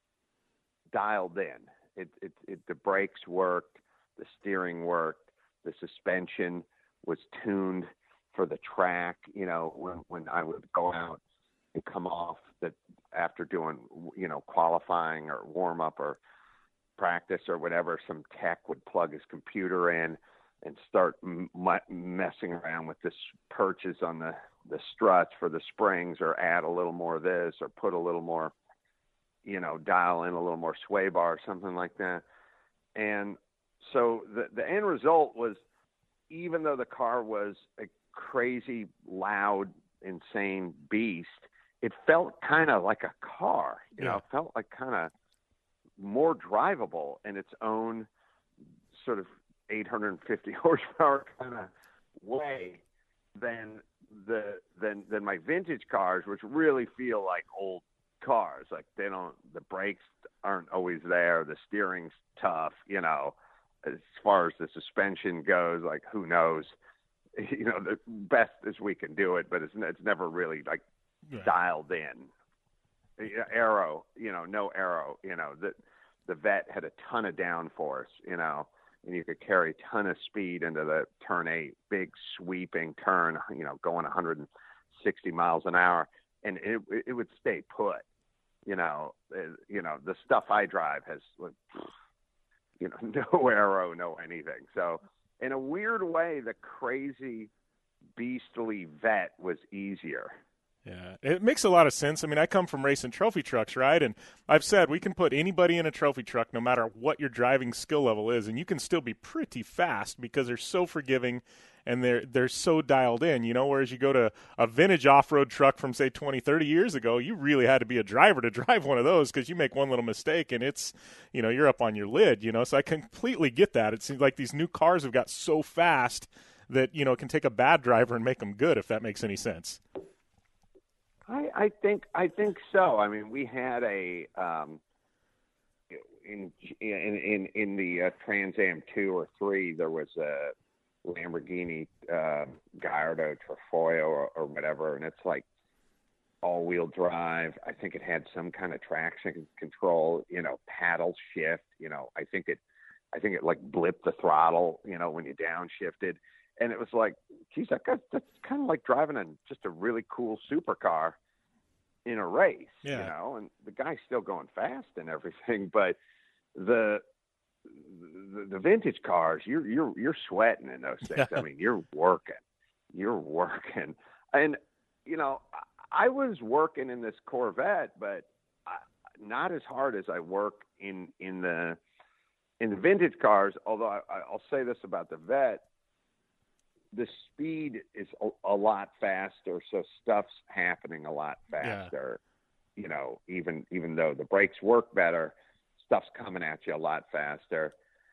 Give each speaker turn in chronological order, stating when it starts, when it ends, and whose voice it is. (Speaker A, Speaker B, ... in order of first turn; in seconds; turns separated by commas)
Speaker A: 0.9-11.2, Speaker A: 11.7-16.2, Speaker A: 17.0-28.5, Speaker A: 29.4-32.2, Speaker A: 33.0-35.6, Speaker A: 36.3-45.1, Speaker A: 46.0-48.1, Speaker A: 48.9-52.8, Speaker A: 53.4-66.7, Speaker A: 67.4-70.8, Speaker B: 71.3-71.5, Speaker A: 71.4-72.3, Speaker A: 73.2-88.0, Speaker A: 88.7-91.9, Speaker A: 92.8-97.5, Speaker A: 98.2-100.4, Speaker B: 100.8-129.8, Speaker A: 131.3-134.8, Speaker A: 135.9-140.5, Speaker A: 141.1-145.4, Speaker A: 146.4-152.6, Speaker A: 153.1-161.2, Speaker A: 162.1-166.0, Speaker B: 162.8-163.1, Speaker A: 166.6-167.0, Speaker A: 167.8-172.4, Speaker B: 171.1-171.4, Speaker A: 172.9-181.8, Speaker A: 182.6-185.6, Speaker A: 186.9-192.2, Speaker B: 191.6-191.9, Speaker A: 192.8-197.7